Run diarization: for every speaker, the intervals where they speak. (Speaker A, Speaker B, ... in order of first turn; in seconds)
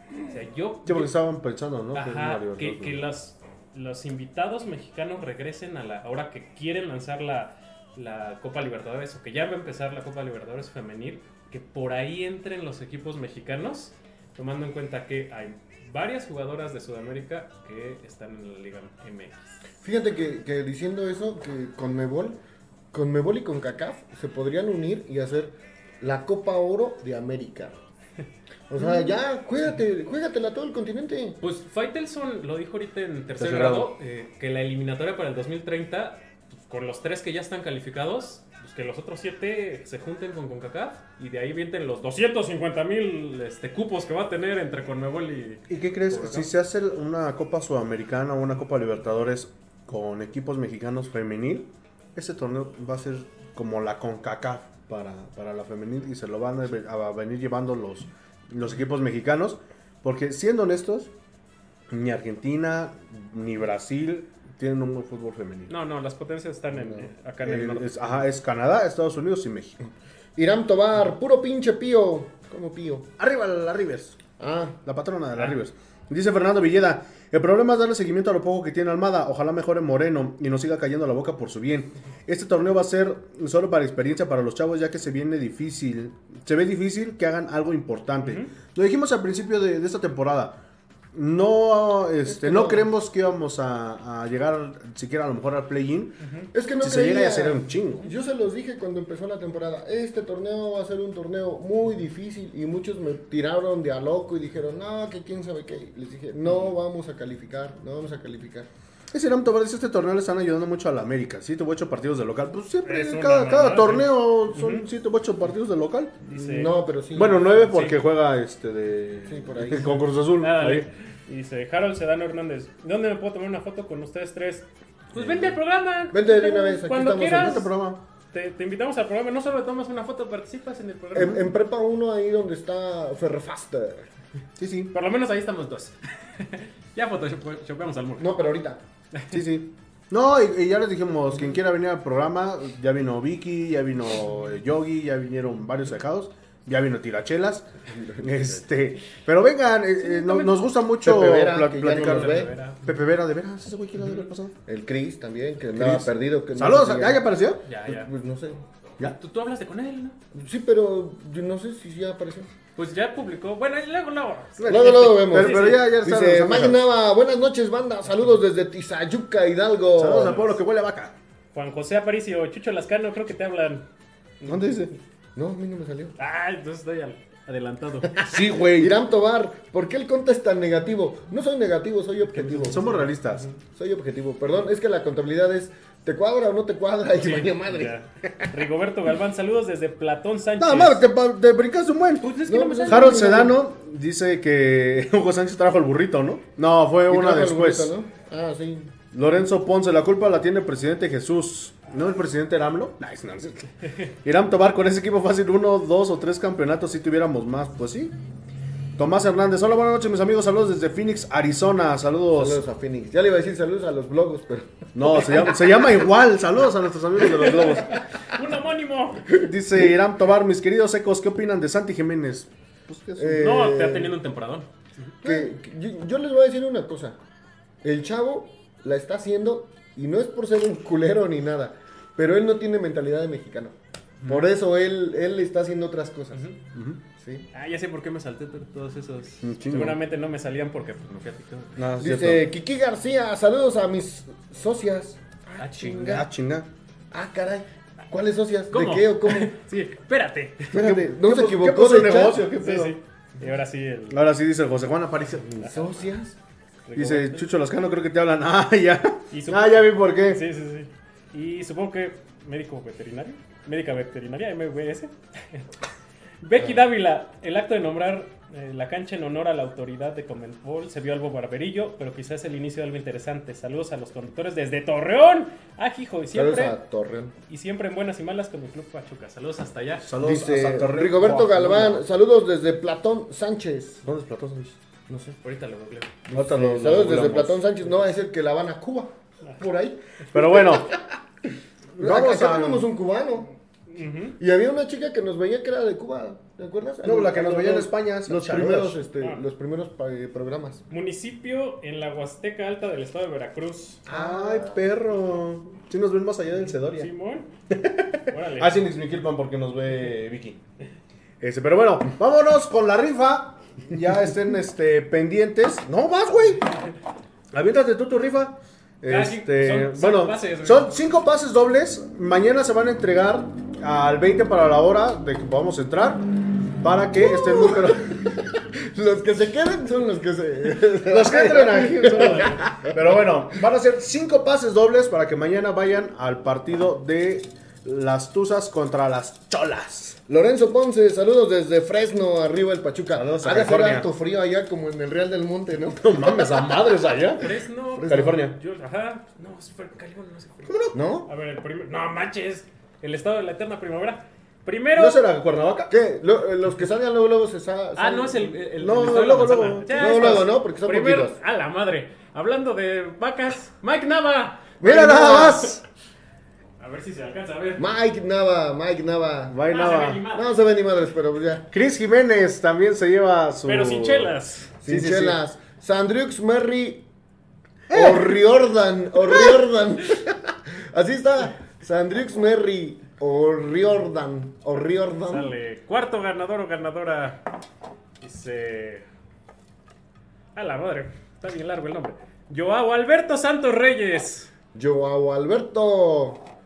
Speaker A: 0.2-1.1, 1.9-19.5, 31.4-46.4, 65.7-67.9, 88.2-88.5, 96.2-96.5, 112.8-114.8, 116.2-116.8, 117.4-118.0, 120.4-127.7, 128.3-131.4, 134.9-138.3, 150.0-150.6, 152.0-152.9, 157.6-158.1, 159.0-160.2, 162.8-165.8, 170.2-170.6, 171.5-173.8, 176.2-178.2, 182.3-183.6, 187.1-191.1, 192.2-193.5, 217.3-219.4, 223.4-225.1, 236.3-236.6, 237.5-241.8, 245.6-246.2, 248.7-250.8, 252.6-254.2, 255.6-255.9, 256.9-257.4, 259.3-265.7, 266.4-276.8, 277.5-280.1, 285.4-286.1, 293.9-294.4, 300.9-304.0, 306.9-307.5, 308.3-308.8, 319.1-321.0, 347.4-355.2, 357.9-365.3, 366.8-367.8, 369.7-370.5, 373.6-374.7, 385.3-387.5, 388.2-389.0, 390.5-394.5
Speaker B: 0.8-3.0, 33.4-33.9, 45.7-61.1, 61.9-65.7, 67.4-69.8, 73.2-74.2, 74.8-90.6, 91.1-96.2, 96.8-98.1, 109.1-120.9, 125.1-125.6, 127.2-128.0, 131.1-131.4, 134.6-134.9, 139.3-147.7, 148.2-154.5, 155.8-157.6, 164.6-166.9, 170.0-171.1, 174.5-174.9, 178.2-178.9, 182.6-183.5, 190.6-197.9, 199.1-208.1, 209.0-212.6, 214.9-218.0, 219.3-223.6, 236.7-237.0, 239.4-240.0, 241.8-242.4, 246.0-246.7, 250.7-253.0, 254.1-255.6, 256.9-260.4, 280.0-282.0, 284.0-284.8, 286.3-287.6, 290.3-291.0, 291.9-292.9, 297.0-299.0, 304.1-307.1, 307.7-310.6, 311.4-316.8, 317.5-328.3, 331.0-340.2, 343.1-344.1, 346.0-347.5, 348.0-348.6, 350.6-351.0, 354.9-355.9, 358.8-360.4, 364.8-365.8, 369.5-370.2, 371.7-375.4, 377.9-378.4
Speaker C: 19.8-22.4, 22.9-27.8, 28.7-31.4, 66.7-67.0, 70.3-73.1, 74.4-74.8, 92.2-92.8, 96.5-108.7, 116.4-117.5, 119.2-120.0, 126.1-127.6, 131.1-134.1, 138.2-138.8, 147.8-148.6, 151.0-152.5, 154.7-157.3, 157.8-158.7, 160.3-162.5, 164.6-170.5, 175.3-176.1, 178.2-182.9, 183.6-188.5, 192.4-193.6, 197.1-198.9, 212.3-215.5, 223.2-224.2, 225.2-227.2, 227.8-236.5, 237.2-237.5, 242.0-246.3, 247.1-249.5, 250.7-252.5, 255.5-256.4, 276.3-277.3, 280.2-284.0, 285.1-285.4, 286.3-293.5, 294.4-300.8, 304.1-304.8, 327.1-333.2, 340.3-347.2, 348.0-348.3, 350.9-351.3, 355.9-358.6, 359.9-361.4, 364.8-365.7, 367.8-369.6, 370.3-371.7, 374.8-377.1, 377.9-385.5, 394.7-396.5